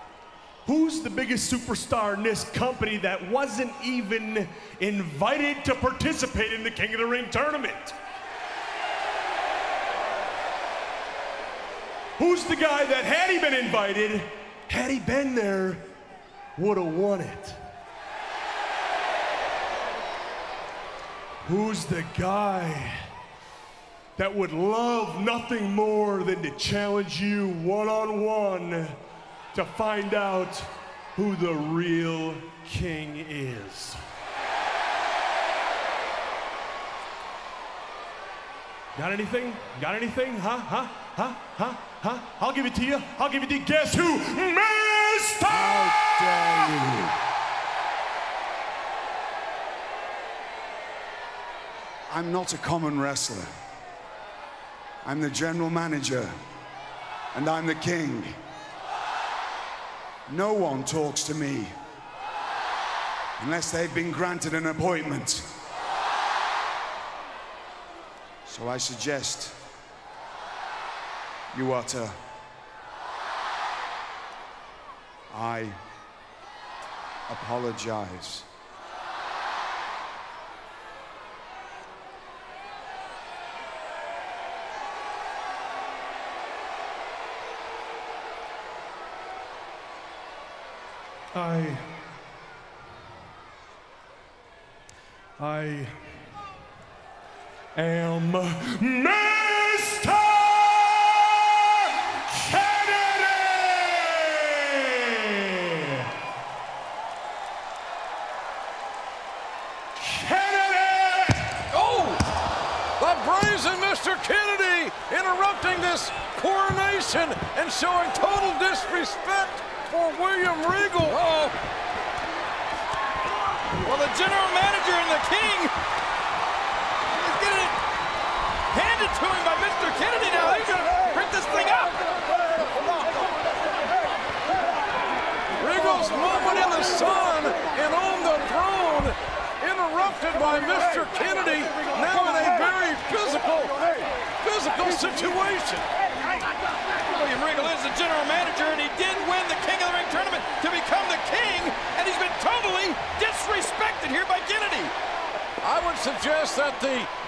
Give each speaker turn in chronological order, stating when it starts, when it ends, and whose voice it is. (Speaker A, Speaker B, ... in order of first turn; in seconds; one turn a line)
Speaker A: 0.6-7.9
Speaker A: 12.2-15.8
Speaker A: 16.6-17.6
Speaker A: 21.4-23.1
Speaker A: 24.1-29.0
Speaker A: 29.5-34.0
Speaker A: 38.9-46.5
Speaker B: 45.5-47.1
Speaker B: 52.1-53.5
Speaker B: 55.0-56.3
Speaker B: 57.3-58.4
Speaker B: 60.3-61.7
Speaker B: 63.4-65.5
Speaker B: 68.5-69.6
Speaker B: 71.5-72.2
Speaker B: 75.3-75.8
Speaker B: 77.3-78.5
Speaker A: 91.3-91.9
Speaker A: 95.4-96.2
Speaker A: 97.7-106.1
Speaker A: 110.0-111.7
Speaker C: 111.8-112.2
Speaker D: 113.0-121.2
Speaker C: 121.1-121.5
Speaker C: 123.8-125.7
Speaker C: 127.1-127.8
Speaker C: 128.7-132.1
Speaker C: 132.8-133.1
Speaker D: 135.6-145.9
Speaker C: 147.0-154.9
Speaker D: 155.6-157.1